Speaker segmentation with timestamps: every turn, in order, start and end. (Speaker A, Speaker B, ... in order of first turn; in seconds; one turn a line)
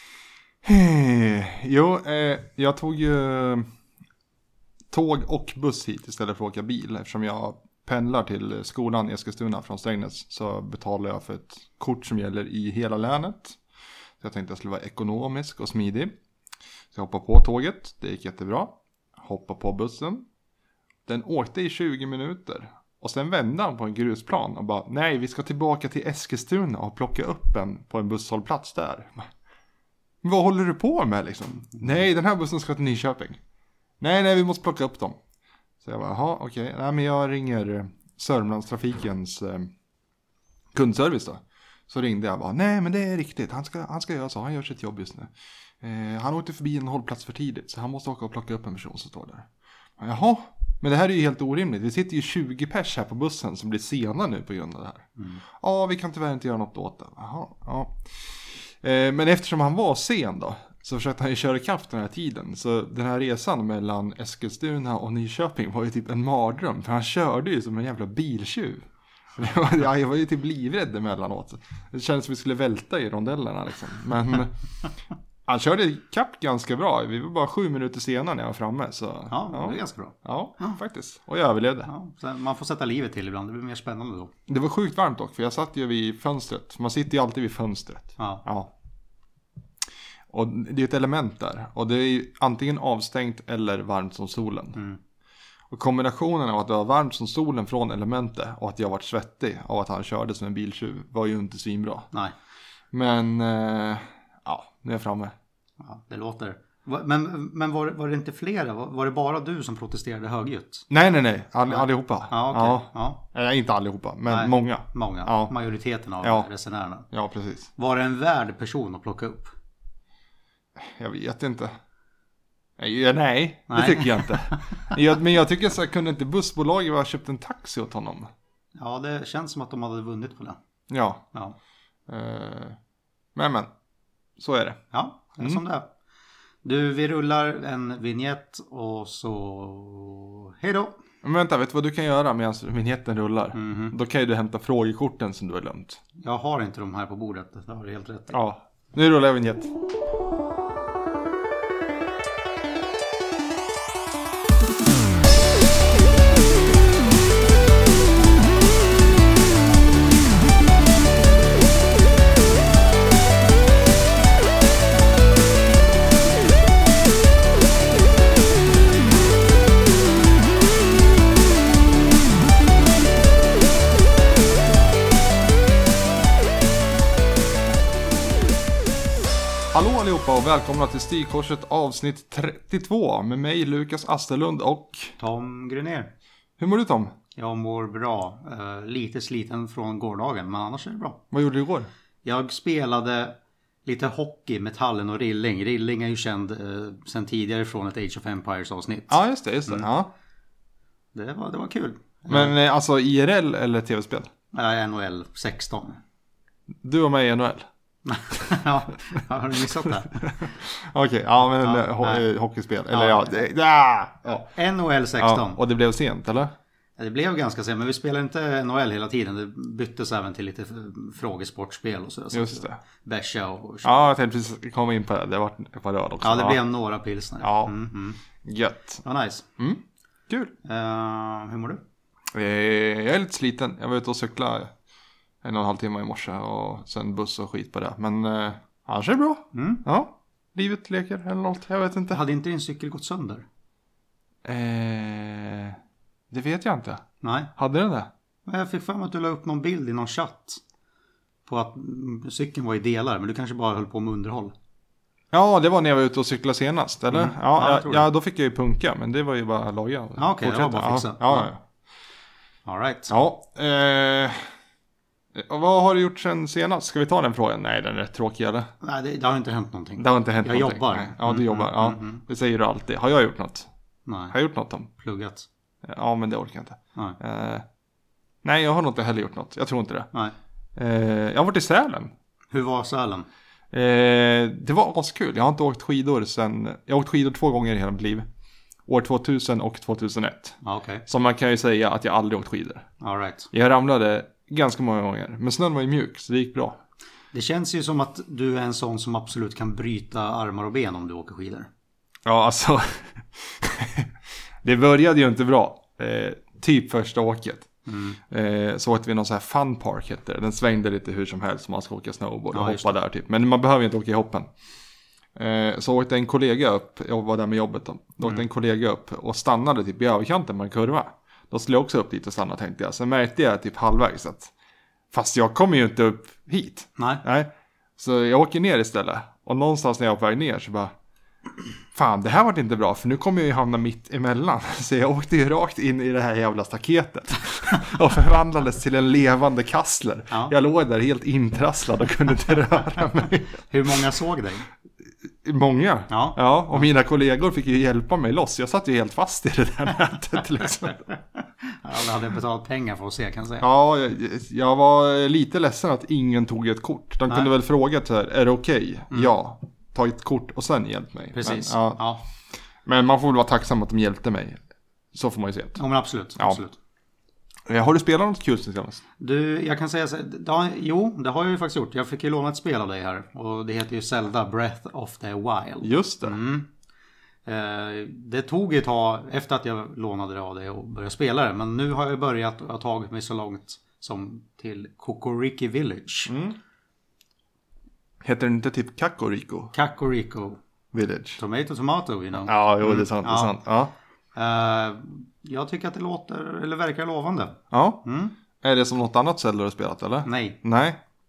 Speaker A: 0.6-3.7
Speaker A: 4.9-13.6
Speaker A: 14.2-16.1
Speaker A: 16.9-20.3
Speaker A: 21.1-29.3
Speaker A: 30.2-33.4
Speaker A: 34.0-35.2
Speaker A: 35.8-39.7
Speaker A: 40.7-68.8
Speaker B: 55.2-55.4
Speaker A: 69.4-74.5
Speaker A: 75.5-81.9
Speaker B: 79.3-80.8
Speaker B: 81.8-84.3
Speaker A: 84.5-88.7
Speaker B: 88.2-88.5
Speaker A: 90.3-94.8
Speaker A: 95.7-102.1
Speaker A: 102.9-105.3
Speaker B: 105.8-110.9
Speaker A: 110.9-115.5
Speaker B: 111.7-113.2
Speaker B: 114.3-117.1
Speaker A: 116.2-116.5
Speaker A: 117.1-117.7
Speaker B: 117.8-119.5
Speaker A: 120.8-121.7
Speaker A: 122.8-128.3
Speaker B: 123.7-124.8
Speaker B: 128.8-130.6
Speaker A: 130.9-131.3
Speaker A: 132.1-132.8
Speaker A: 133.3-133.7
Speaker A: 134.4-134.8
Speaker B: 134.9-135.9
Speaker B: 136.6-141.0
Speaker A: 141.2-146.0
Speaker B: 143.5-143.9
Speaker B: 146.2-148.3
Speaker A: 148.3-149.7
Speaker A: 179.7-185.2
Speaker B: 185.2-186.1
Speaker A: 186.6-187.1
Speaker B: 187.4-191.2
Speaker A: 191.3-191.9
Speaker B: 192.2-199.9
Speaker A: 199.1-200.1
Speaker B: 201.1-202.5
Speaker A: 202.3-204.3
Speaker B: 204.5-206.0
Speaker A: 206.8-207.7
Speaker B: 208.1-210.5
Speaker A: 210.2-214.5
Speaker B: 211.6-212.3
Speaker B: 212.9-213.4
Speaker B: 214.4-215.6
Speaker A: 215.2-216.5
Speaker B: 217.0-224.1
Speaker A: 222.3-222.8
Speaker A: 223.8-226.6
Speaker B: 226.2-228.2
Speaker A: 227.4-227.8
Speaker A: 228.4-229.0
Speaker B: 229.0-229.5
Speaker A: 229.6-230.5
Speaker B: 230.6-231.8
Speaker A: 232.3-234.7
Speaker A: 235.4-242.2
Speaker B: 239.5-239.8
Speaker B: 242.1-243.5
Speaker A: 244.4-245.8
Speaker A: 246.3-247.0
Speaker B: 247.2-247.5
Speaker A: 247.6-248.1
Speaker B: 248.5-250.6
Speaker B: 251.5-254.5
Speaker A: 255.3-261.6
Speaker B: 257.1-258.1
Speaker B: 260.2-261.5
Speaker B: 262.7-263.1
Speaker A: 263.1-264.5
Speaker A: 265.3-268.7
Speaker B: 268.8-272.2
Speaker A: 270.0-273.7
Speaker B: 274.1-274.4
Speaker A: 274.3-274.9
Speaker B: 275.0-275.5
Speaker A: 275.8-277.6
Speaker A: 278.4-280.1
Speaker A: 280.8-282.1
Speaker B: 282.5-283.3
Speaker A: 283.7-288.3
Speaker A: 288.9-292.9
Speaker B: 290.6-291.0
Speaker B: 293.0-293.5
Speaker A: 293.5-296.8
Speaker B: 297.3-301.7
Speaker A: 302.2-304.1
Speaker A: 304.6-307.7
Speaker B: 307.9-308.2
Speaker A: 308.3-314.5
Speaker B: 312.5-312.9
Speaker A: 315.4-324.5
Speaker A: 325.1-330.9
Speaker B: 327.0-327.2
Speaker A: 331.9-343.9
Speaker B: 343.5-344.7
Speaker A: 345.4-351.1
Speaker B: 346.1-346.9
Speaker B: 351.6-353.7
Speaker A: 353.6-362.0
Speaker B: 361.3-362.2
Speaker A: 362.9-364.6
Speaker A: 365.1-365.8
Speaker B: 365.8-366.8
Speaker A: 367.7-369.0
Speaker B: 369.2-376.7
Speaker A: 375.8-376.4
Speaker B: 377.5-386.3
Speaker A: 386.3-386.6
Speaker A: 388.2-389.7
Speaker B: 389.7-390.6
Speaker A: 390.9-391.4
Speaker B: 391.4-393.6
Speaker A: 392.4-393.9
Speaker B: 394.4-398.3
Speaker A: 397.7-398.0
Speaker A: 398.6-401.0
Speaker B: 400.2-400.6